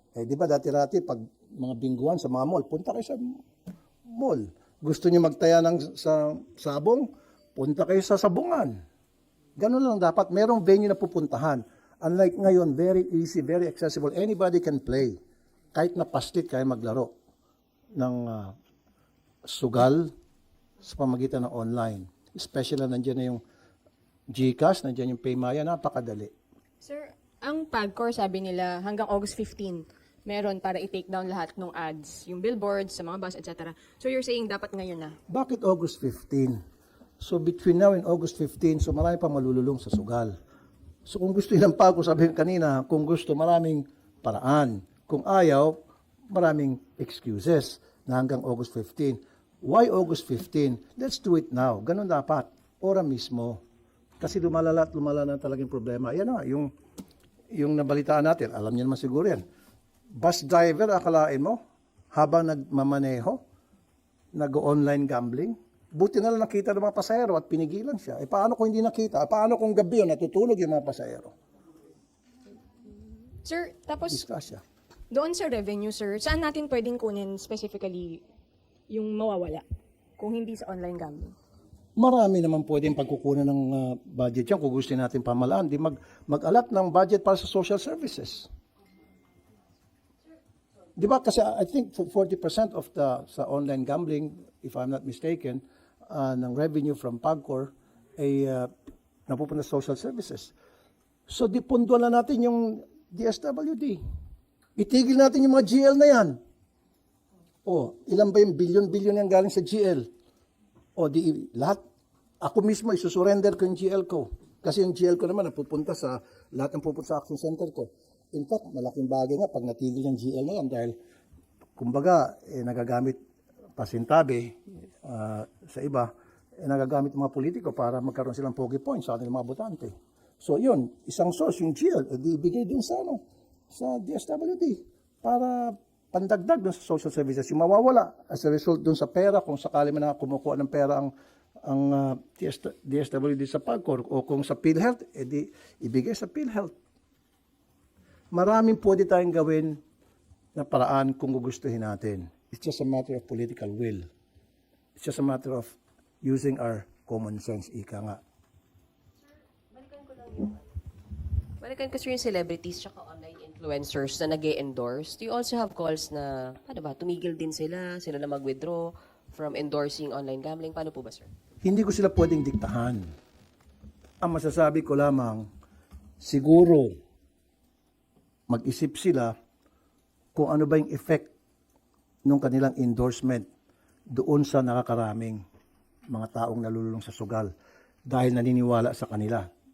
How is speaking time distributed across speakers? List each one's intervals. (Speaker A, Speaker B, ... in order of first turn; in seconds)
Speaker A: 0.1-3.4, 4.1-8.8, 9.6-15.2, 15.7-17.1, 18.0-18.5, 19.4-20.1, 20.8-23.4, 24.3-26.3, 35.3-36.6, 37.2-40.4, 41.0-45.8, 46.3-53.6, 54.2-56.7, 57.5-59.4, 60.1-61.6, 62.1-63.4, 64.3-71.3, 74.1-74.6, 82.0-88.5, 91.0-98.7, 99.3-100.5, 101.3-104.0, 104.8-106.4, 107.7-110.1, 111.0-111.8, 112.4-120.9, 121.8-123.2, 123.8-141.1, 141.6-146.7, 148.3-149.8, 150.6-154.1, 155.0-158.2, 171.6-173.1, 174.2-175.5, 176.2-176.9, 178.5-179.3, 180.3-181.3, 182.2-183.5, 184.1-185.4, 186.1-187.5, 188.1-189.4
Speaker B: 26.8-35.2, 73.4-74.1, 75.1-78.2, 78.9-79.6, 80.2-81.3
Speaker C: 159.7-160.6, 161.6-171.3